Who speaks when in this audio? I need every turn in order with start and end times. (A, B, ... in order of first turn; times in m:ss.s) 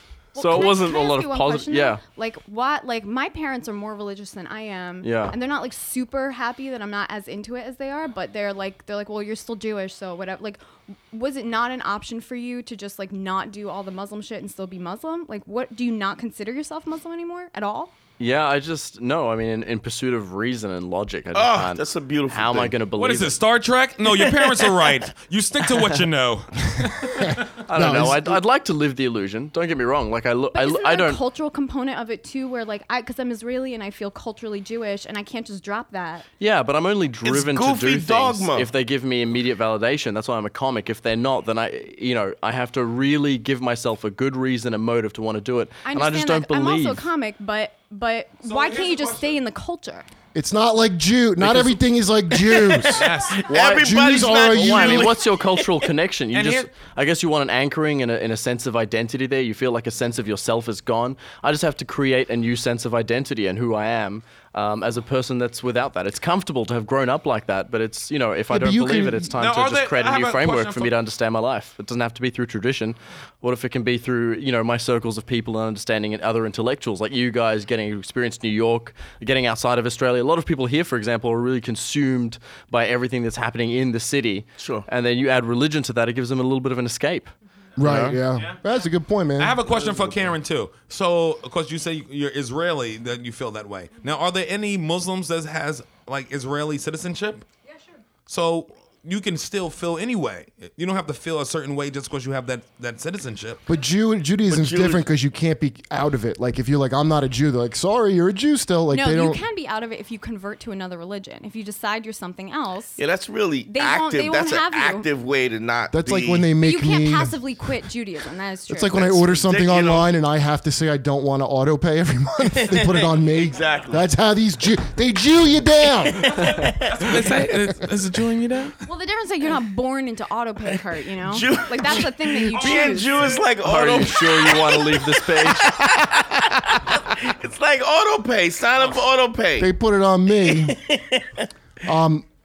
0:00.4-0:17.9 A
0:00.4-0:02.0 B
0:05.0-0:05.4 B
0:18.2-0:23.4 B
0:21.3-0:22.8 C
0:23.0-0:27.4 D
0:24.2-0:24.8 B
0:25.7-0:26.0 B
0:27.1-0:28.4 E
0:27.7-0:31.2 B
0:30.5-0:36.3 A
0:36.4-0:47.0 B
0:37.2-0:38.7 C
0:45.8-0:50.1 A
0:48.4-0:49.4 D
0:50.3-0:55.2 E
0:51.4-0:51.7 B
0:52.6-0:55.8 C
0:52.9-0:53.4 D
0:53.4-1:28.2 B
0:56.3-0:56.7 D
1:08.5-1:09.3 E
1:09.4-1:11.0 D
1:24.6-1:24.9 C
1:27.8-1:29.6 E
1:27.9-1:28.6 D
1:29.4-1:37.4 D
1:38.3-1:43.6 D
1:43.7-1:49.4 E
1:44.5-1:45.0 C
1:48.9-1:53.0 A
1:53.0-1:56.5 C
1:53.7-1:55.1 A
1:55.9-1:57.4 E
1:56.6-1:59.2 A
1:58.7-2:06.4 E
1:59.3-2:00.1 C
2:02.6-2:04.1 C
2:06.1-2:07.3 C
2:06.4-2:08.8 D
2:08.9-2:13.3 A
2:11.2-2:19.7 C
2:12.6-2:13.5 D
2:13.6-2:15.7 B
2:19.6-2:20.8 E
2:20.4-2:21.5 C
2:21.8-2:22.3 E